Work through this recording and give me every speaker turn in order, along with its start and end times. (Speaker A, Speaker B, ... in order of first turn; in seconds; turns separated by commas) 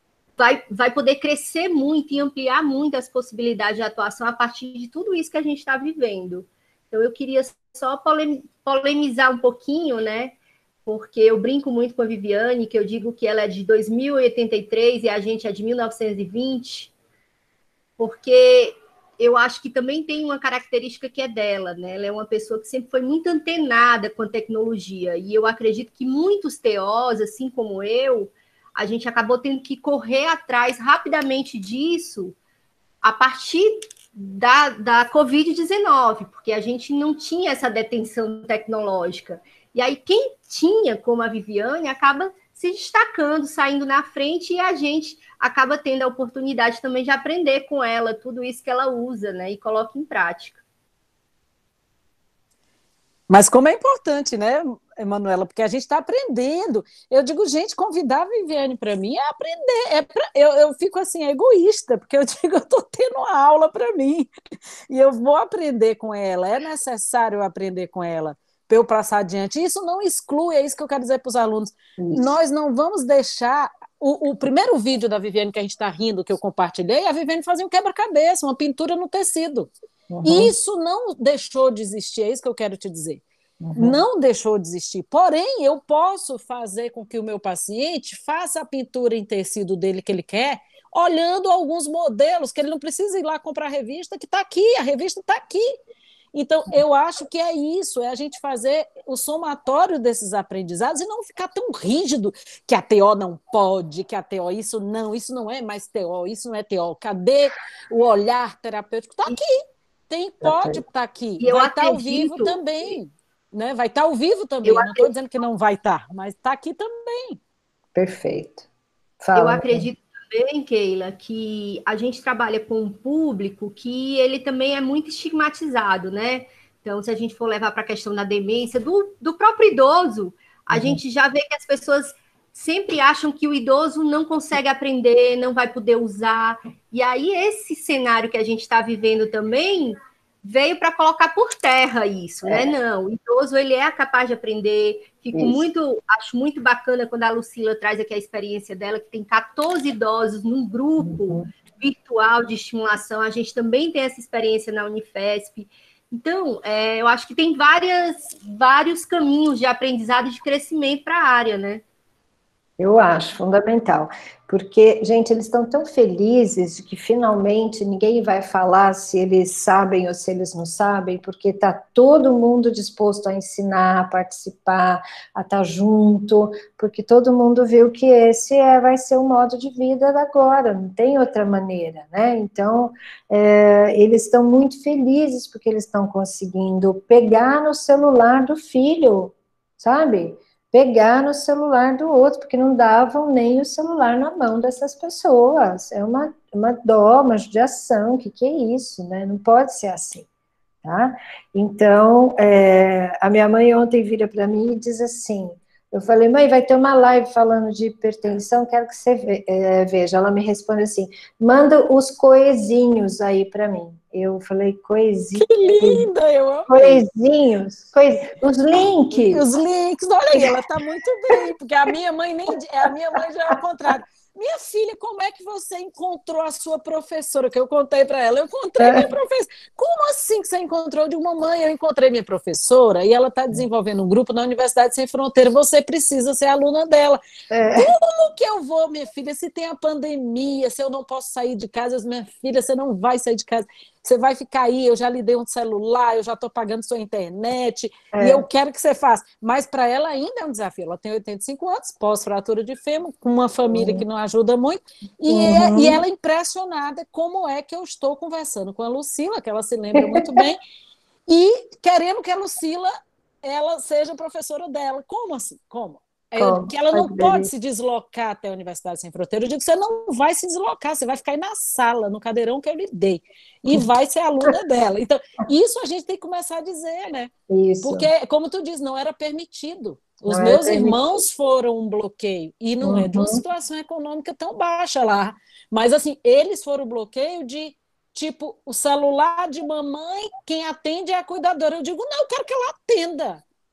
Speaker A: 0.4-16.9, Speaker A: 18.0-32.4, Speaker A: 33.0-50.6, Speaker B: 53.3-64.3, Speaker B: 64.9-79.7, Speaker C: 72.0-72.4, Speaker C: 80.1-80.5, Speaker B: 80.2-83.2, Speaker C: 83.6-84.0, Speaker B: 83.8-95.8, Speaker B: 96.3-117.4, Speaker C: 110.4-110.8, Speaker A: 111.4-112.6, Speaker A: 114.7-115.0, Speaker C: 118.0-118.7, Speaker C: 119.2-119.9, Speaker A: 119.3-161.8, Speaker C: 130.7-131.0, Speaker C: 142.4-142.7, Speaker C: 145.3-145.6, Speaker C: 151.0-151.5, Speaker C: 162.8-200.3, Speaker C: 200.8-216.1, Speaker B: 215.4-217.1, Speaker C: 216.7-219.4, Speaker B: 219.3-237.2, Speaker C: 228.8-229.1, Speaker C: 237.5-237.9, Speaker B: 237.7-260.6, Speaker C: 248.1-248.5, Speaker C: 253.7-254.0, Speaker C: 255.3-256.0, Speaker C: 260.0-260.4, Speaker B: 261.3-293.4, Speaker C: 266.4-267.5, Speaker C: 277.5-278.1, Speaker C: 280.3-281.0, Speaker C: 282.8-283.4